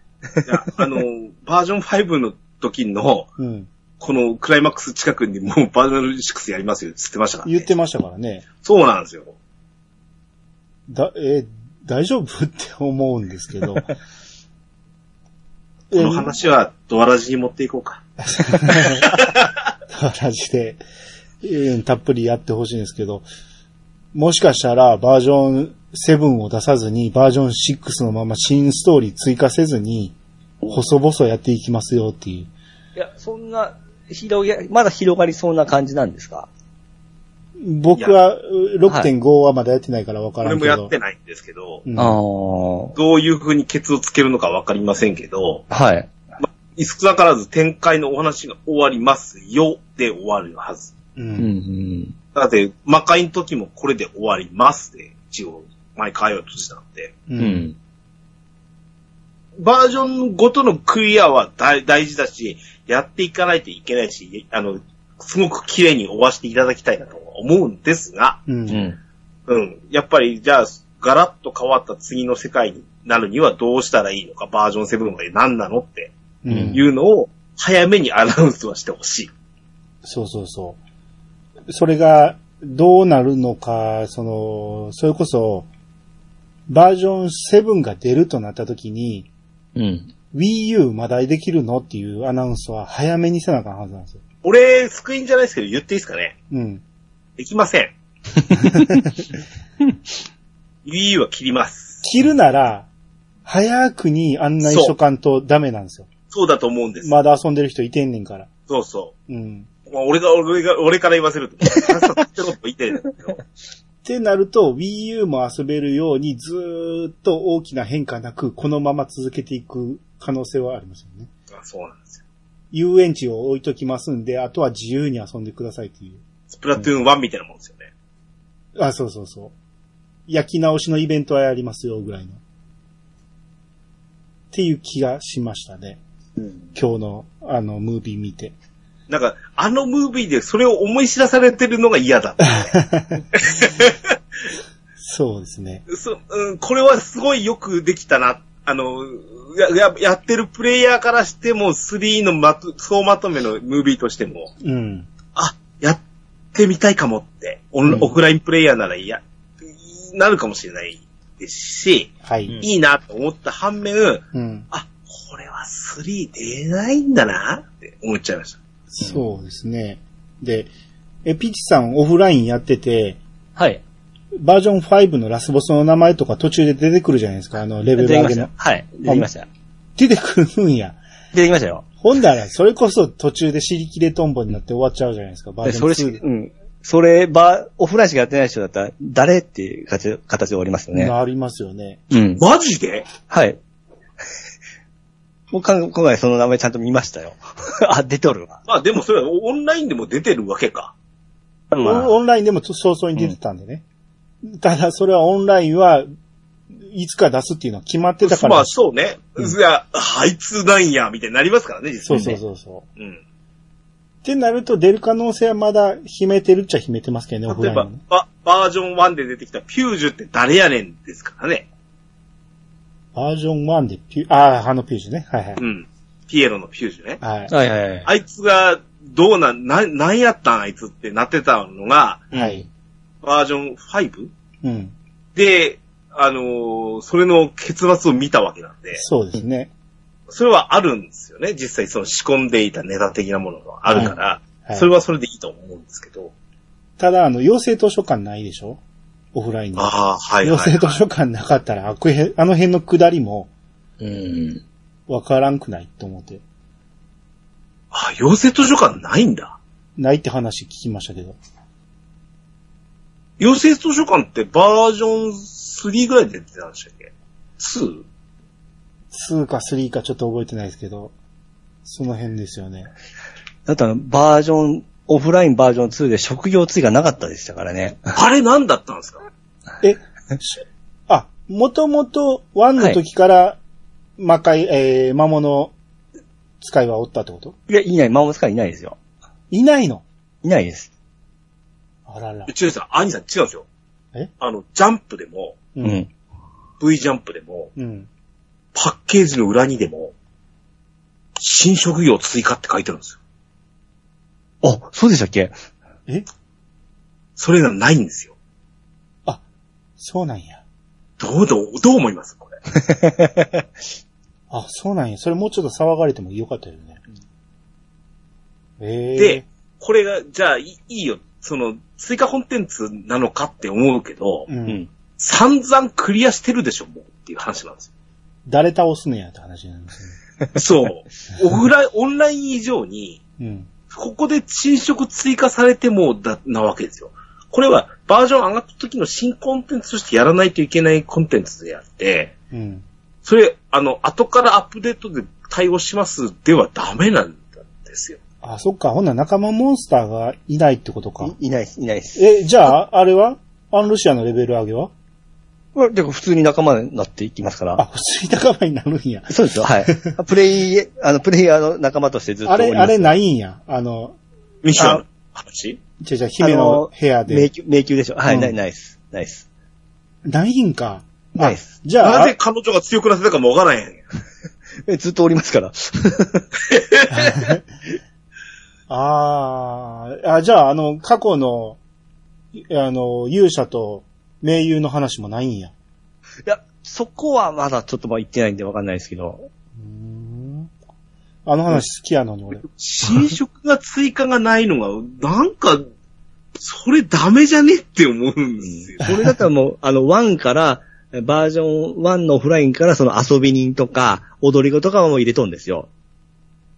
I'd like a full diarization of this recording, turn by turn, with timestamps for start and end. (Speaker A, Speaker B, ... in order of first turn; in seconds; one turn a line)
Speaker A: 0.5-3.3
Speaker B: 3.4-3.7
Speaker A: 4.0-7.7
Speaker B: 7.4-8.4
Speaker A: 8.6-9.3
Speaker B: 10.9-13.9
Speaker B: 15.9-16.3
Speaker A: 15.9-18.0
Speaker B: 18.2-19.1
Speaker A: 18.8-19.5
Speaker B: 19.9-20.8
Speaker B: 21.4-23.3
Speaker B: 24.1-30.1
Speaker B: 30.7-32.5
Speaker C: 33.0-36.5
Speaker B: 37.6-40.9
Speaker A: 40.4-41.8
Speaker B: 41.8-42.2
Speaker C: 42.0-42.9
Speaker A: 43.0-45.6
Speaker C: 45.7-46.1
Speaker A: 46.8-50.9
Speaker B: 51.1-51.5
Speaker C: 51.4-52.1
Speaker A: 52.3-57.1
Speaker B: 57.3-57.6
Speaker C: 57.4-57.8
Speaker A: 59.6-68.4
Speaker B: 68.5-68.9
Speaker C: 68.7-69.0
Speaker A: 69.5-76.1
Speaker B: 76.4-76.8
Speaker C: 76.5-76.8
Speaker A: 76.7-79.3
Speaker B: 80.0-80.8
Speaker B: 81.7-85.7
Speaker B: 86.7-89.3
Speaker C: 89.8-90.1
Speaker B: 90.3-94.2
Speaker A: 94.4-96.3
Speaker B: 96.5-96.8
Speaker A: 97.4-97.9
Speaker C: 98.5-99.0
Speaker B: 98.7-99.0
Speaker A: 100.8-102.0
Speaker B: 102.0-102.9
Speaker B: 103.5-106.1
Speaker A: 104.6-104.9
Speaker A: 106.3-107.2
Speaker B: 107.0-108.5
Speaker A: 108.7-109.1
Speaker B: 109.3-109.7
Speaker A: 109.9-113.4
Speaker B: 114.0-121.3
Speaker A: 121.5-122.2
Speaker B: 122.7-126.2
Speaker A: 126.5-127.9
Speaker B: 128.8-129.5
Speaker B: 130.3-132.4
Speaker B: 134.5-136.0
Speaker B: 136.7-138.5
Speaker A: 139.1-142.8
Speaker B: 142.4-143.2
Speaker A: 143.3-144.2
Speaker B: 145.0-145.8
Speaker A: 145.9-154.5
Speaker B: 154.6-155.1
Speaker A: 155.3-156.0
Speaker A: 156.5-168.6
Speaker B: 162.2-162.6
Speaker B: 164.3-164.7
Speaker B: 168.9-170.7
Speaker B: 171.2-173.2
Speaker C: 173.6-173.8
Speaker B: 174.4-178.5
Speaker C: 177.9-179.5
Speaker B: 179.9-181.0
Speaker C: 181.3-181.8
Speaker B: 182.0-186.2
Speaker C: 185.6-191.1
Speaker B: 190.9-192.0
Speaker C: 192.1-192.4
Speaker A: 192.4-193.1
Speaker C: 193.2-193.6
Speaker C: 195.5-198.6
Speaker A: 198.7-200.9
Speaker C: 201.7-202.1
Speaker B: 201.8-203.8
Speaker B: 204.4-206.1
Speaker B: 206.7-208.7
Speaker A: 208.2-212.4
Speaker B: 212.0-212.8
Speaker B: 214.2-218.0
Speaker A: 217.5-221.7
Speaker B: 223.1-225.6
Speaker A: 225.6-227.2
Speaker B: 227.2-227.5
Speaker C: 227.5-228.1
Speaker A: 228.1-232.3
Speaker C: 232.3-232.6
Speaker B: 232.3-232.7
Speaker A: 233.2-234.3
Speaker B: 234.6-234.9
Speaker A: 235.3-239.0
Speaker B: 238.9-239.7
Speaker A: 240.3-246.3
Speaker B: 243.9-244.9
Speaker B: 247.0-248.8
Speaker B: 249.3-249.9
Speaker A: 249.8-250.9
Speaker B: 250.4-253.5
Speaker C: 254.0-254.6
Speaker B: 255.1-256.4
Speaker A: 257.9-259.6
Speaker B: 260.0-261.4
Speaker A: 263.4-268.0
Speaker B: 269.1-271.1
Speaker B: 271.8-272.9
Speaker C: 273.7-278.1
Speaker A: 278.1-279.2
Speaker B: 279.8-283.6
Speaker B: 284.2-285.7
Speaker B: 286.6-287.5
Speaker C: 287.7-289.0
Speaker B: 289.5-290.0
Speaker C: 290.4-290.9
Speaker B: 292.1-292.5
Speaker A: 292.5-293.6
Speaker A: 294.4-295.6
Speaker B: 295.7-296.0
Speaker C: 295.8-296.1
Speaker A: 296.8-297.7
Speaker B: 297.8-298.1
Speaker A: 298.7-300.1
Speaker A: 301.4-303.2
Speaker C: 304.6-305.5
Speaker A: 307.4-308.3
Speaker B: 310.0-310.6
Speaker A: 311.2-312.5
Speaker C: 312.7-313.7
Speaker B: 314.5-317.0
Speaker B: 318.8-319.4
Speaker A: 319.1-324.5
Speaker B: 324.5-324.8
Speaker A: 325.2-327.9
Speaker B: 328.4-330.1
Speaker A: 330.6-333.2
Speaker B: 333.4-333.7
Speaker A: 333.9-342.3
Speaker B: 342.5-342.8
Speaker A: 343.2-348.2
Speaker B: 348.4-351.3
Speaker C: 351.2-352.2
Speaker B: 352.1-354.9
Speaker C: 355.7-357.8
Speaker B: 357.8-360.1
Speaker C: 359.3-363.1
Speaker B: 362.4-364.2
Speaker A: 364.6-365.8
Speaker C: 364.8-365.0
Speaker B: 366.0-367.5
Speaker C: 366.4-369.4
Speaker B: 368.3-368.5
Speaker B: 370.2-372.3
Speaker C: 371.4-371.7
Speaker A: 372.0-374.0
Speaker C: 374.8-376.4
Speaker A: 376.7-377.2
Speaker B: 377.1-377.6
Speaker B: 378.9-381.8
Speaker B: 382.5-385.7
Speaker C: 386.4-389.5
Speaker B: 389.8-390.7
Speaker B: 391.4-392.6
Speaker A: 392.6-395.9
Speaker A: 396.6-399.1
Speaker C: 398.6-405.9